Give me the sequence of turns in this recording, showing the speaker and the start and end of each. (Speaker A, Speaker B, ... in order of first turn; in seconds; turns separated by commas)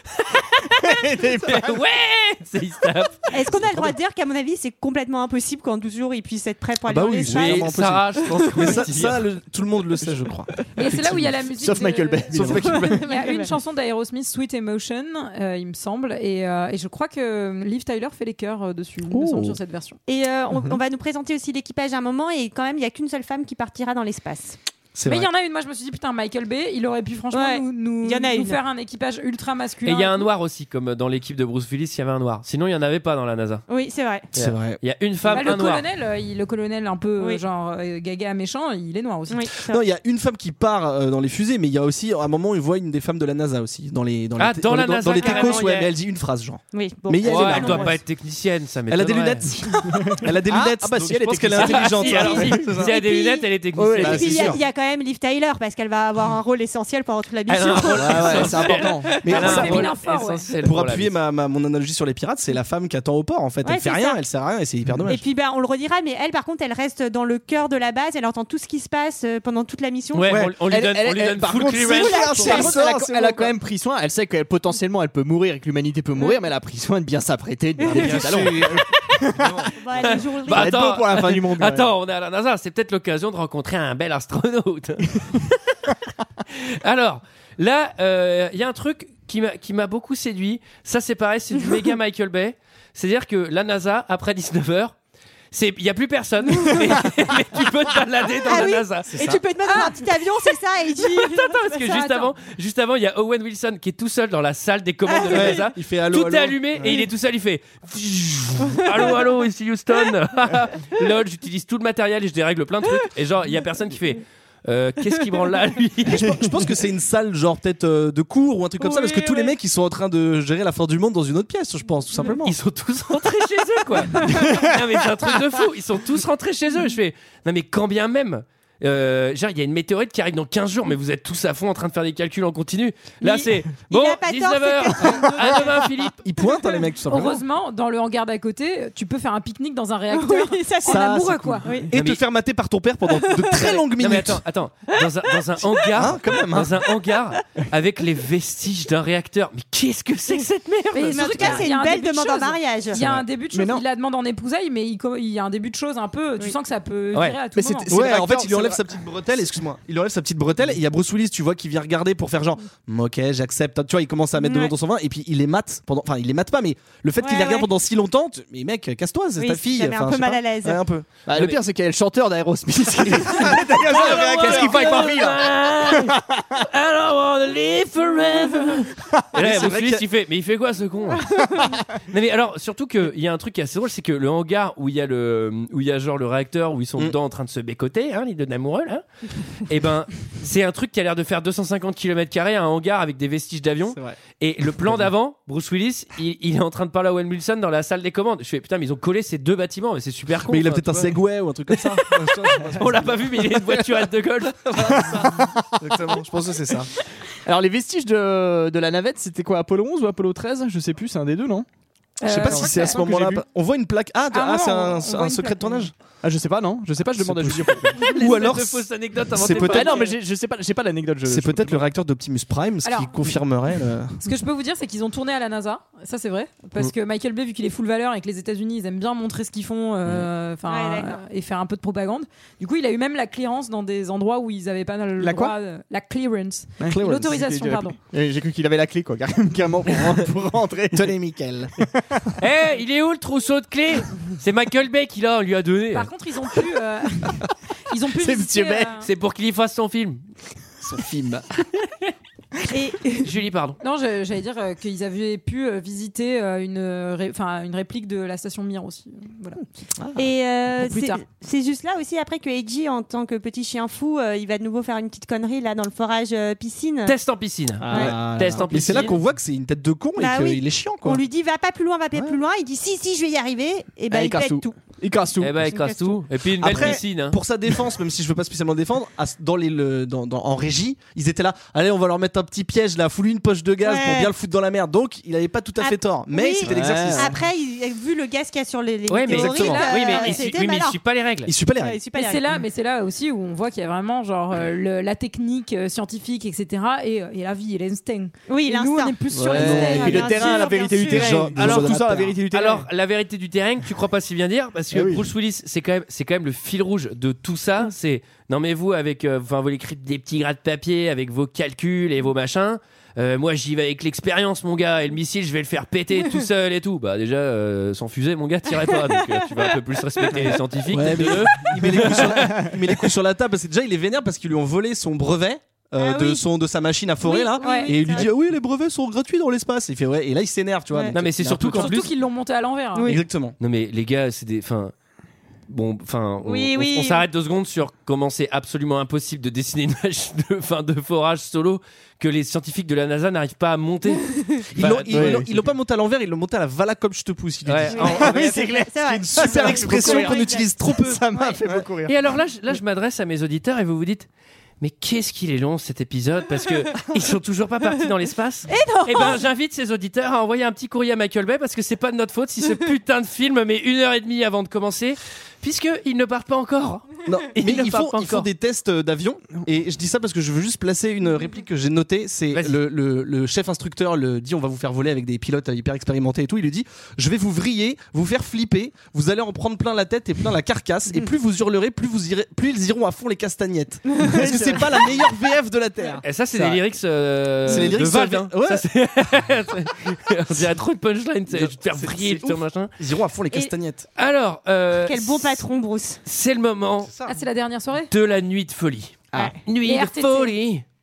Speaker A: 0.2-3.3, Speaker B: 0.8-1.8, Speaker C: 3.3-7.7, Speaker D: 3.6-4.0, Speaker D: 6.8-11.4, Speaker A: 7.3-9.2, Speaker E: 10.7-20.0, Speaker B: 10.9-13.0, Speaker D: 12.3-12.9, Speaker C: 12.7-13.5, Speaker D: 19.1-19.6, Speaker C: 20.1-24.6, Speaker D: 24.9-25.3, Speaker E: 25.1-30.3, Speaker C: 27.3-28.6, Speaker A: 29.8-33.6, Speaker C: 33.7-34.3, Speaker A: 34.3-35.8, Speaker D: 34.3-34.8, Speaker E: 35.3-39.5, Speaker C: 39.3-39.8, Speaker D: 39.6-48.0, Speaker A: 44.4-45.9, Speaker C: 45.2-45.6, Speaker C: 46.7-48.0, Speaker A: 47.2-49.5, Speaker D: 48.9-52.9, Speaker B: 50.0-52.8, Speaker A: 51.5-54.6, Speaker C: 52.7-58.8, Speaker B: 53.8-54.6, Speaker D: 54.2-54.5, Speaker A: 57.5-61.1, Speaker B: 57.9-59.2, Speaker E: 59.2-60.6, Speaker D: 59.2-59.9, Speaker D: 60.6-65.2, Speaker C: 63.6-64.2, Speaker C: 65.1-70.3, Speaker A: 70.1-72.6, Speaker B: 70.5-79.5, Speaker C: 71.9-72.8, Speaker D: 71.9-73.5, Speaker A: 77.9-78.8, Speaker D: 77.9-78.7, Speaker D: 79.3-79.7, Speaker C: 79.8-80.8, Speaker A: 80.0-85.9, Speaker B: 80.4-81.9, Speaker A: 86.5-94.9, Speaker A: 95.5-99.2, Speaker C: 98.4-102.1, Speaker D: 99.1-99.4, Speaker E: 99.6-100.0, Speaker A: 101.1-116.4, Speaker E: 101.9-102.3, Speaker C: 105.1-105.6, Speaker D: 105.3-106.9, Speaker D: 116.1-122.6, Speaker C: 118.8-119.5, Speaker A: 122.4-136.2, Speaker C: 133.2-135.8, Speaker D: 136.2-137.4, Speaker E: 137.1-141.7, Speaker C: 140.1-141.1, Speaker D: 140.8-144.4, Speaker C: 141.6-141.9, Speaker A: 141.9-142.2, Speaker C: 143.1-143.8, Speaker A: 143.9-151.6, Speaker D: 145.9-146.8, Speaker E: 150.9-157.9, Speaker C: 151.1-153.0, Speaker B: 153.5-153.8, Speaker B: 157.5-158.8, Speaker D: 157.9-171.2, Speaker C: 164.4-164.7, Speaker C: 167.2-167.7, Speaker C: 169.4-170.8, Speaker B: 171.3-176.6, Speaker D: 173.1-175.2, Speaker A: 173.3-201.2, Speaker D: 179.3-180.1, Speaker D: 193.9-194.2, Speaker D: 194.8-195.1, Speaker D: 200.5-203.3, Speaker A: 201.7-202.0, Speaker A: 202.7-204.6, Speaker D: 204.7-206.9, Speaker B: 204.9-205.7, Speaker B: 207.4-211.7, Speaker E: 212.2-213.2, Speaker D: 212.2-215.9, Speaker B: 212.3-213.4, Speaker E: 214.3-215.9, Speaker B: 216.2-218.1, Speaker D: 217.2-220.1, Speaker A: 218.0-220.2, Speaker B: 219.4-221.9, Speaker D: 221.2-224.2, Speaker E: 222.8-223.3, Speaker E: 224.2-238.0, Speaker C: 230.6-231.2, Speaker B: 235.2-235.5, Speaker B: 236.8-241.2, Speaker D: 240.9-241.7, Speaker B: 241.8-242.3, Speaker A: 242.4-246.1, Speaker E: 245.9-249.1, Speaker B: 248.2-248.9, Speaker A: 249.0-250.2, Speaker D: 250.8-251.4, Speaker C: 252.7-253.3, Speaker A: 253.2-253.8, Speaker E: 253.8-259.6, Speaker C: 260.1-267.1, Speaker E: 260.8-261.2, Speaker A: 267.0-269.2, Speaker D: 267.8-271.2, Speaker B: 267.9-268.5, Speaker C: 270.2-274.8, Speaker B: 274.1-275.7, Speaker A: 275.4-277.4, Speaker C: 275.7-276.2, Speaker D: 276.6-287.3, Speaker C: 283.8-284.3, Speaker C: 285.8-291.0, Speaker B: 286.6-287.4, Speaker A: 289.1-291.5, Speaker D: 289.3-289.8, Speaker E: 289.5-290.4, Speaker D: 291.4-292.0, Speaker C: 291.8-292.6, Speaker E: 292.1-300.8, Speaker C: 298.5-301.5, Speaker B: 299.3-302.9, Speaker D: 299.5-302.4, Speaker A: 301.6-301.9, Speaker A: 302.5-322.7, Speaker B: 304.9-305.2, Speaker D: 320.9-332.0, Speaker C: 326.0-326.4, Speaker E: 327.3-328.0, Speaker C: 327.3-328.3, Speaker A: 331.1-332.1, Speaker E: 331.7-333.2, Speaker C: 332.9-333.2, Speaker D: 333.0-333.6, Speaker A: 333.6-334.9, Speaker A: 335.7-345.6, Speaker C: 336.4-337.2, Speaker D: 344.7-348.4, Speaker B: 345.1-345.5, Speaker A: 347.6-348.7, Speaker C: 347.9-350.7, Speaker B: 348.1-352.2, Speaker D: 349.1-351.8, Speaker A: 352.0-354.3, Speaker A: 354.8-368.5, Speaker C: 358.7-359.4, Speaker D: 367.2-386.2, Speaker A: 372.5-372.8, Speaker C: 384.1-384.5, Speaker B: 384.2-384.9, Speaker A: 386.2-392.9, Speaker B: 386.5-386.8, Speaker D: 387.7-388.8, Speaker D: 391.5-394.1, Speaker A: 394.2-395.7, Speaker C: 394.9-396.2, Speaker A: 396.2-397.1, Speaker D: 397.0-397.4, Speaker E: 397.2-398.1, Speaker A: 398.1-400.8, Speaker E: 399.8-400.6